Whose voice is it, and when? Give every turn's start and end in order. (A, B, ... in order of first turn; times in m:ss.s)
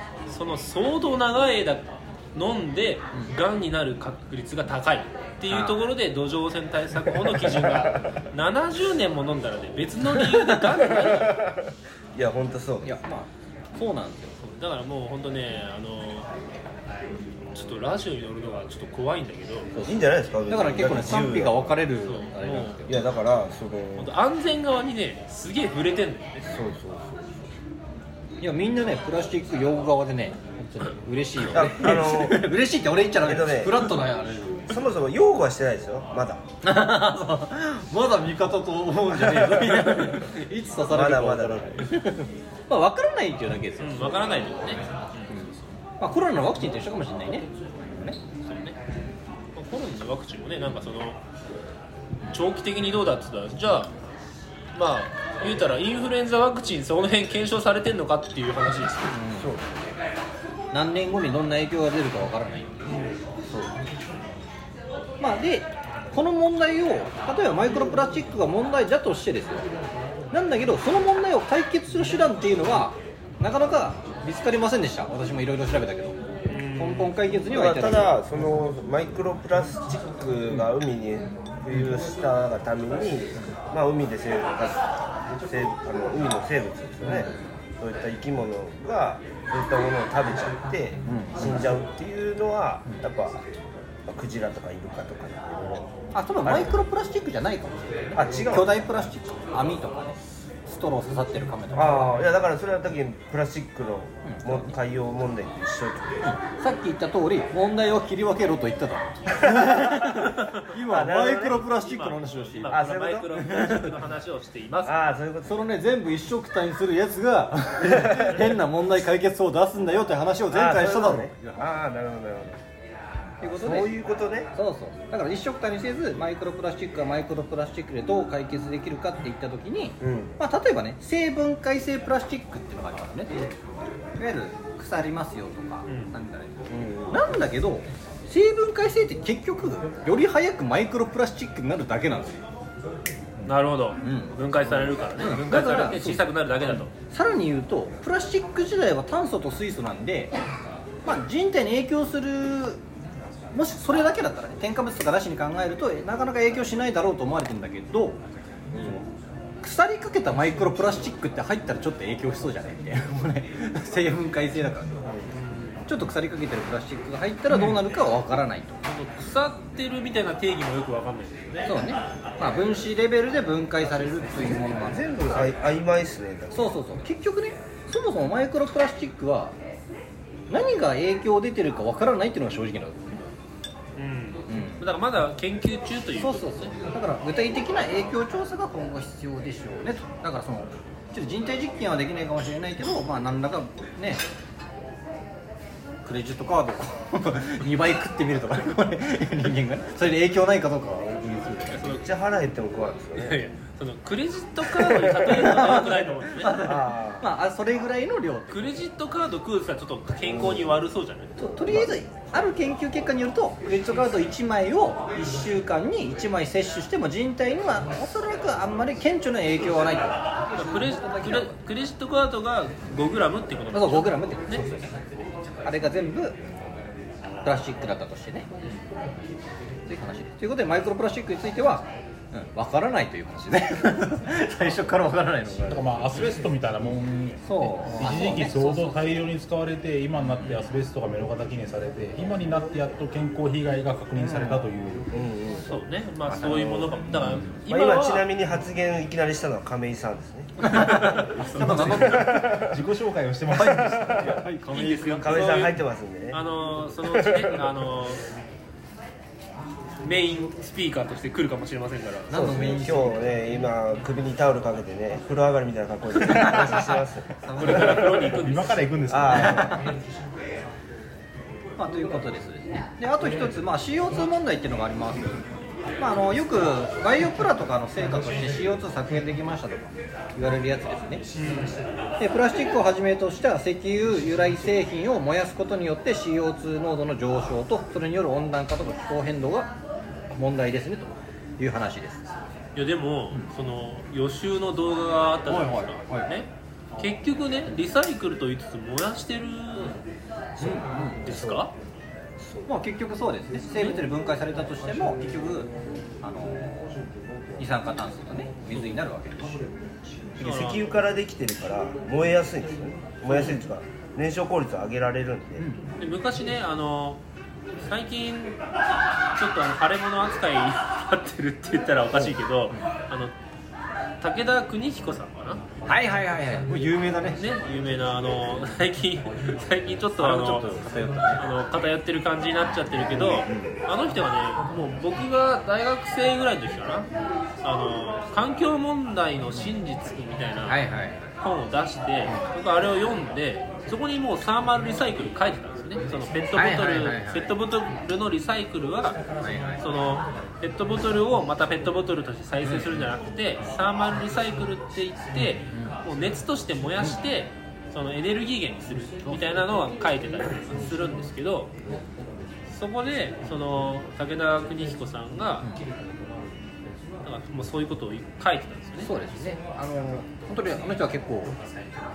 0:00.3-0:11.4 A
0:05.5-0:05.8 B
0:07.6-0:08.0 C
0:10.2-0:10.6 B
0:10.8-0:12.9 C
0:12.8-0:14.4 B
0:14.4-0:16.3 A
0:17.5-0:19.7 A
0:19.7-0:23.0 B
0:19.8-0:21.7 C
0:22.0-0:22.9 A
0:22.9-0:24.1 C
0:24.0-0:26.6 A
0:26.4-0:27.5 C
0:28.4-0:34.8 B
0:31.4-0:32.5 C
0:33.2-0:33.9 C
0:34.7-0:36.4 C
0:36.6-0:44.5 B
0:39.2-0:40.1 C
0:40.9-0:41.9 C
0:43.8-0:45.7 A
0:46.0-0:48.2 B
0:48.4-0:48.8 A
0:49.5-0:51.2 A
0:52.3-0:53.9 A
0:54.7-0:59.2 A
0:59.1-0:59.5 B
0:59.4-0:59.9 C
1:00.7-1:03.0 B
1:02.9-1:03.1 A
1:05.2-1:09.7 B
1:10.3-1:18.2 B
1:16.5-1:17.2 A
1:17.5-1:33.4 C
1:27.0-1:27.4 B
1:31.1-1:31.6 B
1:34.1-1:35.9 C
1:36.1-1:42.1 B
1:36.4-1:36.8 C
1:38.1-1:39.1 C
1:41.7-1:46.3 C
1:44.2-1:44.8 B
1:46.2-1:52.8 B
1:49.6-1:50.0 C
1:50.8-1:51.6 C
1:51.6-1:54.9 A
1:52.7-1:53.3 C
1:53.3-1:53.9 B
1:54.8-1:55.6 C
1:55.4-2:01.7 B
1:57.8-1:58.6 C
2:00.5-2:02.6 C
2:03.4-2:03.9 B
2:03.4-2:04.5 C
2:04.5-2:13.5 B
2:10.0-2:10.4 C
2:14.2-2:16.6 B
2:15.9-2:16.1 A
2:16.7-2:17.2 C
2:17.1-2:22.4 B
2:23.4-2:26.9 A
2:24.0-2:24.3 B
2:25.2-2:30.3 B
2:31.0-2:32.8 B
2:33.5-2:38.2 B
2:38.7-2:39.0 C
2:39.6-2:45.0 B
2:45.1-2:45.3 C
2:45.3-2:45.8 A
2:45.9-2:48.8 B
2:48.8-2:51.7 A
2:51.6-2:55.1 B
2:54.7-2:56.7 C
2:56.5-2:59.6 B
3:00.5-3:03.3 B
3:04.0-3:06.7 A
3:04.5-3:04.8 B
3:06.2-3:14.2 B
3:16.0-3:21.8 B
3:21.7-3:22.1 A
3:21.8-3:23.4 C
3:23.2-3:26.6 A
3:24.7-3:28.8 B
3:26.5-3:27.3 C
3:28.5-3:31.3 A
3:30.3-3:30.8 C
3:31.4-3:41.6 B
3:31.6-3:31.9 C
3:40.6-3:44.6 A
3:43.7-3:44.9 B
3:45.6-3:46.4 B
3:47.4-3:48.5 B
3:49.9-3:55.9 B
3:55.7-4:05.1 D
3:57.4-3:58.8 B
4:00.2-4:00.7 B
4:04.2-4:04.6 B
4:05.1-4:05.7 C
4:05.6-4:08.3 A
4:06.3-4:06.9 B
4:06.5-4:06.9 C
4:07.1-4:07.4 D
4:07.7-4:11.2 C
4:10.6-4:12.7 B
4:11.3-4:12.0 A
4:11.4-4:14.4 D
4:11.9-4:12.8 C
4:13.5-4:15.3 B
4:14.7-4:15.8 A
4:15.2-4:16.4 C
4:16.3-4:18.3 A
4:17.0-4:17.6 C
4:20.0-4:22.3 A
4:22.3-4:23.2 B
4:22.3-4:28.3 C
4:26.2-4:28.0 B
4:27.6-4:28.8 A
4:28.4-4:29.8 D
4:29.1-4:29.8 C
4:29.3-4:29.9 B
4:31.8-4:35.4 B
4:36.0-4:41.2 B
4:41.4-4:41.8 A
4:42.2-4:49.7 B
4:50.3-4:52.2 B
4:52.7-5:00.0 A
4:55.5-4:56.3 B
5:00.6-5:01.6 B
5:01.2-5:01.7 A
5:02.4-5:02.7 C
5:02.7-5:05.7 B
5:03.7-5:04.1 A
5:06.2-5:06.9 B
5:07.6-5:09.6 B
5:10.4-5:15.7 C
5:10.4-5:10.9 A
5:15.6-5:15.8 B
5:16.0-5:17.2 A
5:17.8-5:18.6 A
5:19.3-5:23.3 A
5:22.2-5:22.9 B
5:24.2-5:25.6 A
5:25.8-5:27.4 B
5:27.4-5:30.8 A
5:30.2-5:31.4 B
5:31.4-5:37.1 A
5:33.2-5:33.7 B
5:37.6-5:40.8 A
5:40.7-5:41.3 B
5:41.4-5:49.2 A
5:46.6-5:47.5 B
5:49.4-5:49.8 B
5:49.8-6:01.7 A
5:52.6-5:53.0 B
6:02.7-6:05.7 A
6:07.2-6:09.1 A
6:09.0-6:11.6 B